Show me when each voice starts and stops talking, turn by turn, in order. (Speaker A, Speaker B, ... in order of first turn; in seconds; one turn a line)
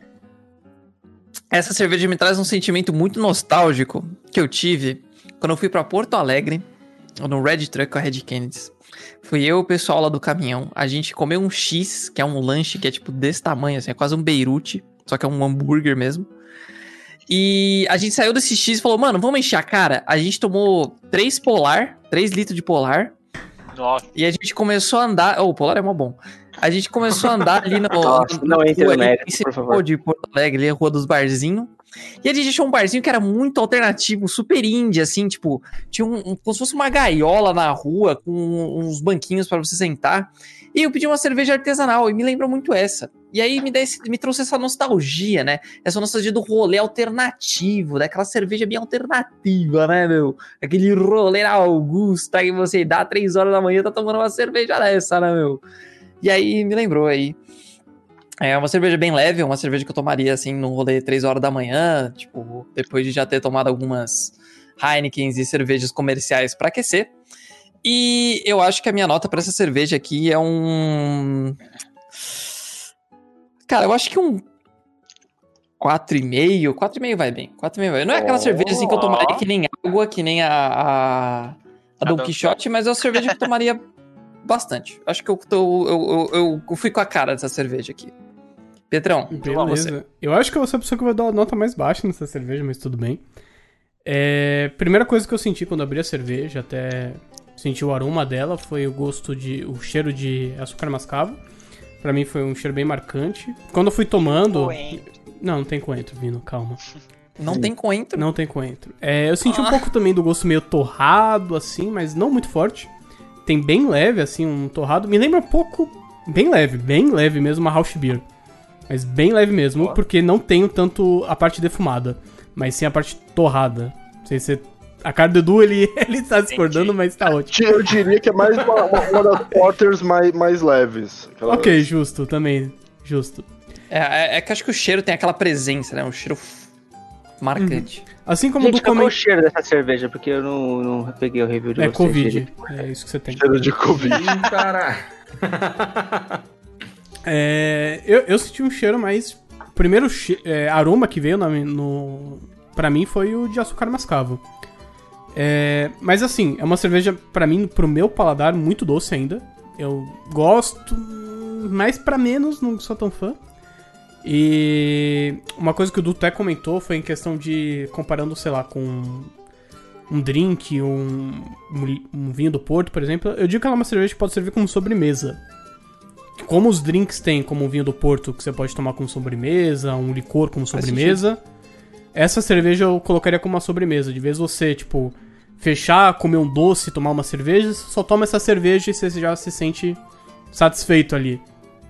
Speaker A: 1.5-6.6
Speaker A: 7.2-16.3
Speaker A: 17.3-23.1
Speaker B: 23.7-24.1
Speaker A: 24.1-31.7
Speaker C: 28.0-29.8
Speaker A: 32.2-55.6
Speaker A: 56.2-57.4
Speaker A: 58.4-67.1
Speaker A: 67.8-71.6
Speaker A: 73.7-74.4
Speaker A: 75.8-83.8
Speaker D: 78.1-78.9
Speaker B: 78.8-79.4
Speaker B: 82.0-82.6
Speaker A: 84.4-88.1
Speaker A: 88.9-89.9
Speaker E: 89.3-93.2
Speaker B: 89.4-89.8
Speaker E: 94.0-101.4
Speaker E: 102.0-106.8
Speaker B: 104.2-105.1
Speaker A: 107.4-108.3
Speaker D: 107.5-107.7
Speaker E: 108.2-112.9
Speaker A: 109.5-109.8
Speaker E: 113.4-118.2
Speaker E: 118.9-127.6
Speaker B: 126.5-126.9
Speaker D: 127.5-131.9
Speaker E: 131.5-133.5
Speaker A: 133.9-136.7
Speaker A: 137.4-138.1
Speaker E: 137.6-139.2
Speaker C: 138.6-142.5
Speaker E: 141.8-143.5
Speaker D: 143.3-144.3
Speaker F: 143.9-146.4
Speaker E: 147.2-154.4
Speaker E: 155.3-163.4
Speaker E: 164.2-169.3
Speaker E: 170.1-175.4
Speaker E: 176.4-181.4
Speaker A: 180.7-181.2
Speaker E: 182.1-190.0
Speaker E: 190.5-191.4